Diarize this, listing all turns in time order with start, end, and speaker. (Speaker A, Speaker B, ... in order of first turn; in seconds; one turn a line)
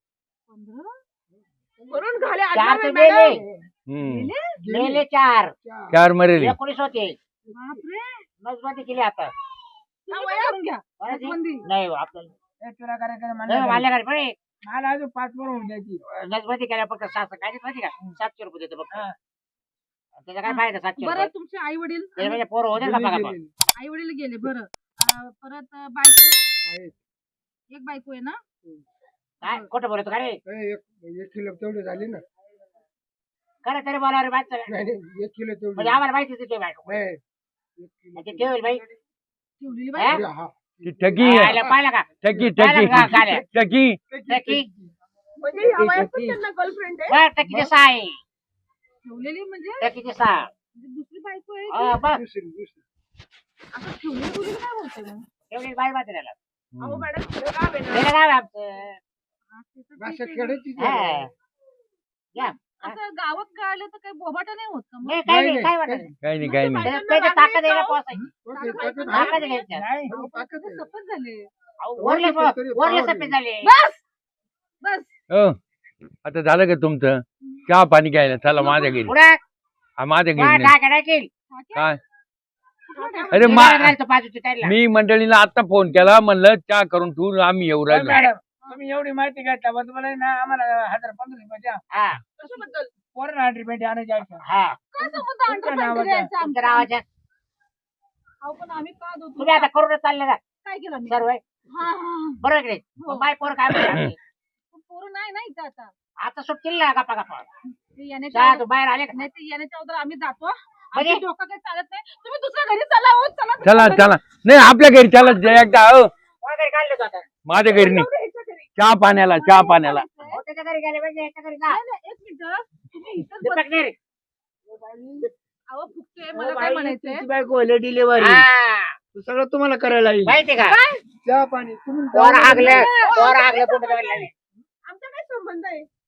Speaker A: 0.5-1.0
Speaker B: 1.8-2.4
Speaker C: 1.9-3.4
Speaker D: 2.5-3.4
Speaker E: 3.9-4.3
Speaker A: 4.0-4.5
Speaker B: 4.6-5.0
Speaker D: 4.7-5.5
Speaker B: 5.6-5.9
Speaker E: 5.9-6.5
Speaker D: 6.4-7.2
Speaker A: 7.5-8.2
Speaker D: 8.4-9.3
Speaker C: 10.1-10.6
Speaker A: 10.1-11.6
Speaker D: 11.0-12.3
Speaker F: 12.6-13.9
Speaker D: 13.5-14.3
Speaker F: 14.7-16.0
Speaker D: 16.1-19.0
Speaker D: 20.2-21.3
Speaker A: 20.4-22.4
Speaker D: 22.2-23.4
Speaker B: 22.7-23.5
Speaker A: 23.8-26.4
Speaker B: 26.6-27.0
Speaker A: 27.7-28.4
Speaker D: 29.4-30.4
Speaker B: 30.4-32.2
Speaker D: 33.6-34.8
Speaker B: 34.7-36.0
Speaker D: 35.7-37.0
Speaker B: 36.9-37.2
Speaker B: 37.8-38.7
Speaker D: 38.1-38.8
Speaker A: 39.6-40.2
Speaker D: 40.0-40.2
Speaker B: 40.0-42.5
Speaker E: 40.8-41.6
Speaker D: 41.2-43.5
Speaker E: 42.2-44.0
Speaker B: 44.1-44.9
Speaker D: 44.3-44.7
Speaker C: 45.4-47.2
Speaker D: 47.1-48.2
Speaker A: 49.0-49.9
Speaker D: 49.8-50.5
Speaker A: 50.7-52.0
Speaker D: 51.7-52.2
Speaker B: 52.1-52.8
Speaker A: 53.7-55.2
Speaker D: 55.5-56.3
Speaker E: 56.7-57.1
Speaker C: 56.8-58.1
Speaker D: 57.9-59.0
Speaker A: 59.5-60.8
Speaker B: 60.0-61.3
Speaker D: 60.8-61.3
Speaker D: 62.3-63.0
Speaker A: 62.4-65.3
Speaker D: 65.0-66.1
Speaker B: 65.2-66.0
Speaker E: 66.2-67.0
Speaker C: 66.4-68.0
Speaker D: 66.8-68.3
Speaker B: 68.4-69.4
Speaker A: 68.5-71.5
Speaker C: 68.6-69.5
Speaker D: 69.1-69.9
Speaker F: 69.7-70.2
Speaker B: 70.1-70.8
Speaker D: 71.8-73.7
Speaker B: 72.0-73.3
Speaker F: 72.4-73.0
Speaker A: 73.6-74.0
Speaker A: 74.8-75.1
Speaker E: 75.3-75.6
Speaker E: 76.2-79.1
Speaker A: 78.6-79.0
Speaker D: 78.8-79.4
Speaker E: 80.0-80.7
Speaker D: 80.4-81.3
Speaker A: 81.5-82.0
Speaker A: 82.9-83.5
Speaker C: 82.9-83.6
Speaker E: 83.3-84.0
Speaker D: 83.4-84.7
Speaker E: 84.6-88.3
Speaker F: 87.9-91.8
Speaker D: 91.9-92.2
Speaker C: 92.4-92.9
Speaker F: 93.1-94.4
Speaker D: 94.4-94.8
Speaker A: 94.9-96.9
Speaker F: 95.0-96.3
Speaker D: 96.4-97.0
Speaker A: 98.4-99.7
Speaker D: 99.4-100.4
Speaker A: 100.6-102.4
Speaker D: 101.1-101.4
Speaker D: 102.4-104.2
Speaker A: 103.0-103.7
Speaker E: 103.8-104.1
Speaker A: 104.7-105.9
Speaker D: 106.2-107.5
Speaker A: 107.9-114.2
Speaker D: 108.3-109.2
Speaker D: 110.9-111.2
Speaker E: 113.6-116.1
Speaker A: 115.2-115.5
Speaker D: 116.4-117.3
Speaker E: 117.5-118.1
Speaker C: 117.6-118.7
Speaker E: 118.8-120.0
Speaker A: 119.3-120.4
Speaker D: 120.2-121.8
Speaker A: 121.7-123.6
Speaker D: 123.4-124.0
Speaker F: 124.7-125.3
Speaker A: 125.7-127.2
Speaker F: 126.4-128.5
Speaker D: 128.2-129.0
Speaker F: 129.1-130.4
Speaker D: 130.2-130.8
Speaker A: 130.6-131.0
Speaker F: 131.2-132.9
Speaker D: 132.1-134.3
Speaker A: 132.5-133.4
Speaker C: 132.9-134.3
Speaker C: 134.8-135.9